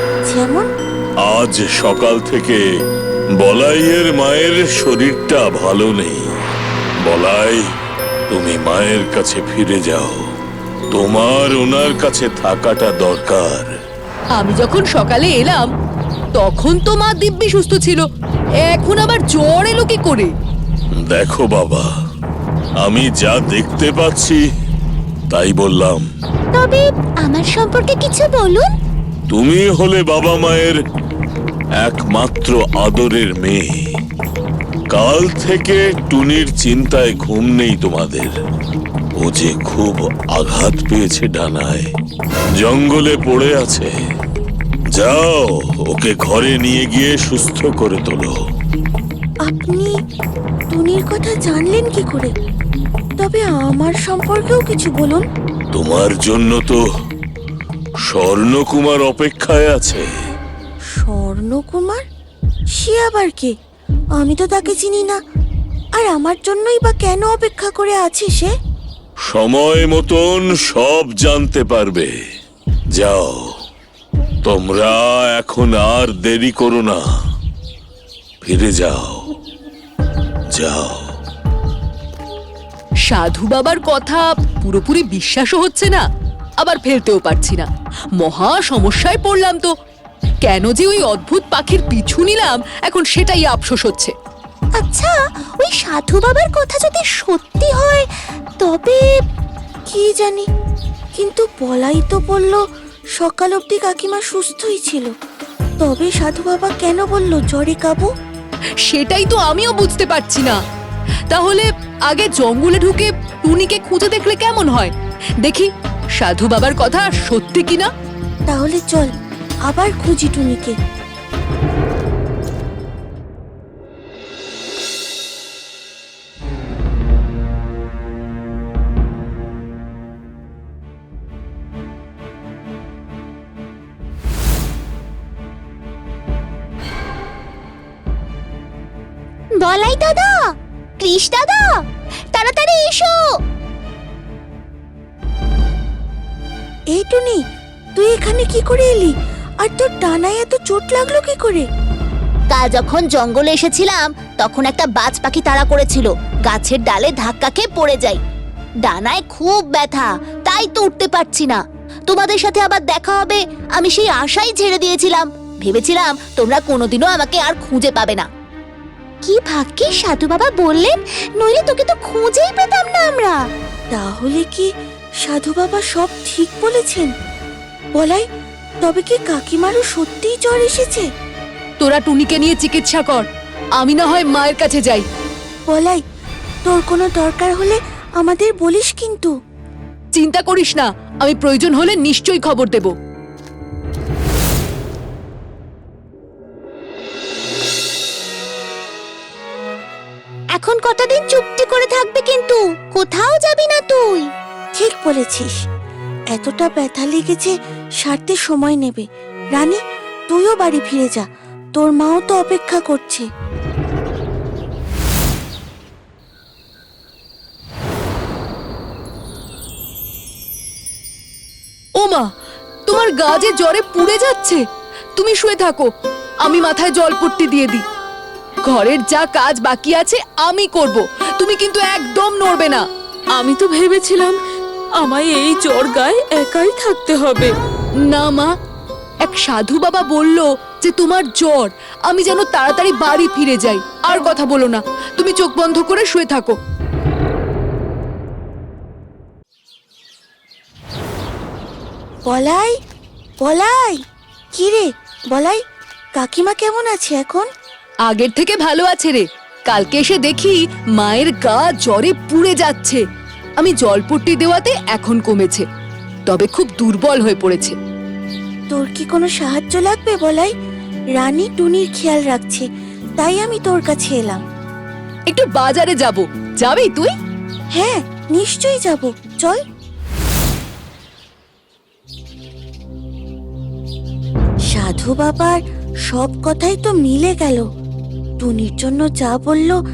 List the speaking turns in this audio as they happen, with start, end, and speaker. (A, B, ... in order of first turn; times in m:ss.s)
0:00.2-0:00.7 A
0:01.2-0:02.6 B
0:03.4-0:06.3 B
0:07.0-0:07.6 B
0:08.3-0:10.2 B
0:10.9-0:13.7 B
0:14.3-0:15.7 C
0:16.3-0:18.0 C
0:18.6-0:20.3 C
0:20.9-0:21.9 B
0:22.8-0:24.4 B
0:25.3-0:26.0 B
0:26.6-0:28.7 D
0:29.3-0:30.8 B
0:31.8-0:33.7 B
0:34.9-0:38.3 B
0:39.2-0:41.9 B
0:42.6-0:43.9 B
0:44.9-0:48.4 B
0:49.4-0:49.9 A
0:50.7-0:52.3 A
0:53.2-0:55.2 A
0:55.7-0:56.8 B
0:58.0-1:00.0 B
1:01.0-1:02.0 A
1:02.7-1:03.5 A
1:04.2-1:05.2 A
1:06.0-1:08.5 A
1:09.3-1:12.1 B
1:12.9-1:13.5 B
1:14.4-1:17.0 B
1:18.4-1:19.2 B
1:20.5-1:21.1 B
1:23.0-1:26.0 C
1:26.6-1:29.7 C
1:30.4-1:34.1 C
1:34.8-1:38.1 D
1:38.6-1:39.0 D
1:39.9-1:40.4 A
1:41.2-1:42.6 A
1:43.2-1:45.1 A
1:45.8-1:48.1 A
1:48.8-1:50.6 C
1:51.3-1:57.9 C
1:58.5-1:59.1 A
1:59.7-2:00.7 A
2:19.6-2:20.4 D
2:21.0-2:21.7 D
2:22.3-2:23.2 D
2:26.9-2:27.4 A
2:28.0-2:31.7 A
2:32.5-2:38.2 D
2:38.8-2:48.2 D
2:49.2-2:53.4 D
2:53.9-2:54.7 A
2:55.2-2:57.1 A
2:58.0-2:58.2 A
2:58.8-3:01.1 A
3:01.8-3:03.3 C
3:03.8-3:05.0 C
3:05.7-3:06.0 A
3:06.7-3:09.3 A
3:10.1-3:12.9 C
3:20.6-3:24.2 D
3:24.8-3:25.6 A
3:26.3-3:29.0 A
3:29.5-3:31.2 A
3:31.8-3:33.2 A
3:42.0-3:42.3 C
3:42.8-3:44.6 C
3:45.2-3:45.9 C
3:46.4-3:47.8 C
3:48.6-3:52.8 C
3:53.4-3:54.4 E
3:55.0-3:57.5 E
3:58.1-3:58.5 C
3:59.2-4:06.5 C
4:12.3-4:12.8 A
4:13.4-4:14.0 A
4:14.5-4:15.6 A
4:16.2-4:17.5 A
4:18.1-4:23.0 C
4:23.6-4:25.6 C
4:26.3-4:27.8 C
4:28.7-4:30.5 A
4:31.2-4:32.6 A
4:33.2-4:34.4 A
4:35.3-4:37.1 C
4:37.7-4:39.6 A
4:44.7-4:47.6 A
4:48.4-4:49.8 A